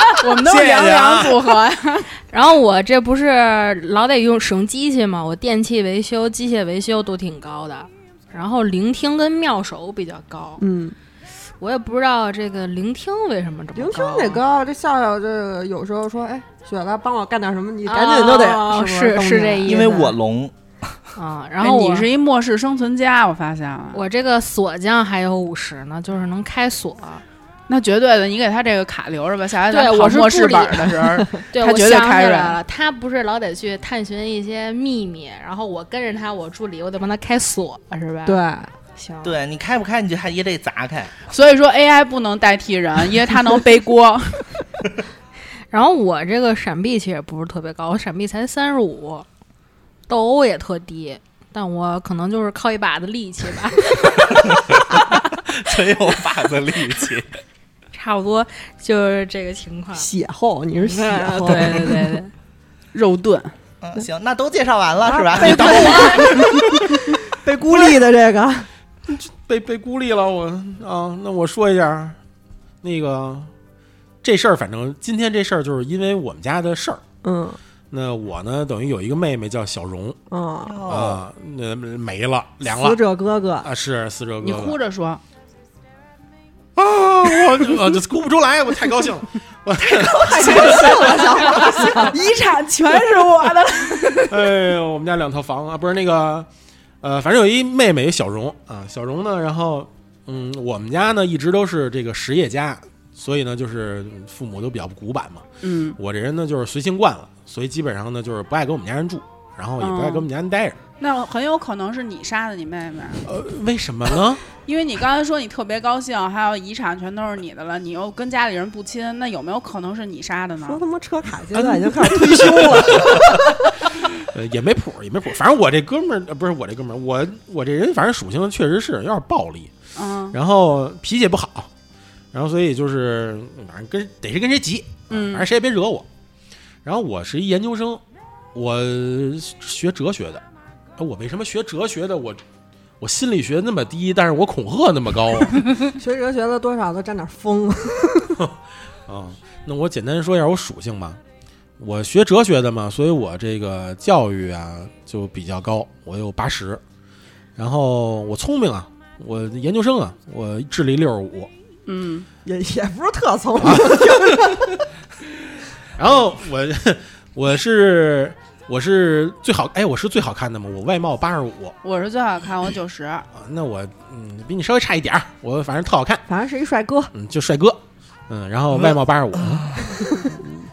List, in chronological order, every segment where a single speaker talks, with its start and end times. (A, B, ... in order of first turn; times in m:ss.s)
0:00.2-0:02.1 A
0:00.5-0:01.3 B
0:02.3-0:10.6 C
0:10.6-0:11.0 D
0:11.6-0:14.4 C
0:13.8-0:20.1 D
0:17.9-0:20.0 C
0:19.6-0:20.5 B
0:21.2-0:22.1 C
0:21.6-0:24.0 A
0:23.9-0:27.2 C
0:27.7-0:32.6 A
0:29.7-0:38.0 C
0:37.9-0:38.3 A
0:38.3-0:38.7 D
0:39.0-0:39.4 C
0:39.2-0:41.2 B
0:41.3-0:44.5 A
0:45.7-0:49.3 C
0:50.1-0:55.0 C
0:55.5-0:57.3 B
0:57.9-1:00.1 C
0:59.9-1:02.1 D
1:00.8-1:02.3 C
1:02.9-1:03.5 A
1:03.8-1:06.8 B
1:05.0-1:08.7 D
1:05.5-1:06.2 C
1:09.1-1:12.2 E
1:12.8-1:13.5 E
1:14.2-1:17.0 E
1:17.2-1:17.6 D
1:17.9-1:20.2 E
1:20.3-1:20.8 D
1:20.7-1:21.2 B
1:20.9-1:23.0 E
1:22.6-1:23.7 D
1:23.6-1:24.8 E
1:24.4-1:25.2 A
1:26.8-1:30.7 E
1:30.0-1:34.4 A
1:30.3-1:32.2 D
1:30.3-1:31.3 B
1:34.3-1:36.5 E
1:37.0-1:45.4 E
1:45.6-1:46.0 A
1:46.0-1:50.8 E
1:49.8-1:50.3 A
1:51.0-1:53.3 A
1:53.2-1:54.4 E
1:54.5-2:00.8 A
2:00.6-2:03.8 D
2:01.6-2:03.5 E
2:04.1-2:09.7 E
2:10.0-2:10.4 A
2:10.3-2:11.7 E
2:12.3-2:16.1 E
2:15.1-2:15.5 A
2:16.8-2:18.0 E
2:18.5-2:20.4 E
2:21.0-2:22.4 E
2:23.0-2:25.7 E
2:25.9-2:28.4 D
2:29.1-2:31.2 E
2:31.8-2:36.8 E
2:37.6-2:41.5 E
2:41.9-2:42.3 A
2:42.4-2:44.8 D
2:43.6-2:44.6 E
2:46.0-2:51.8 E
2:51.8-2:53.3 A
2:53.4-2:56.2 E
2:56.3-2:57.1 D
2:57.1-2:59.8 E
2:59.9-3:00.5 D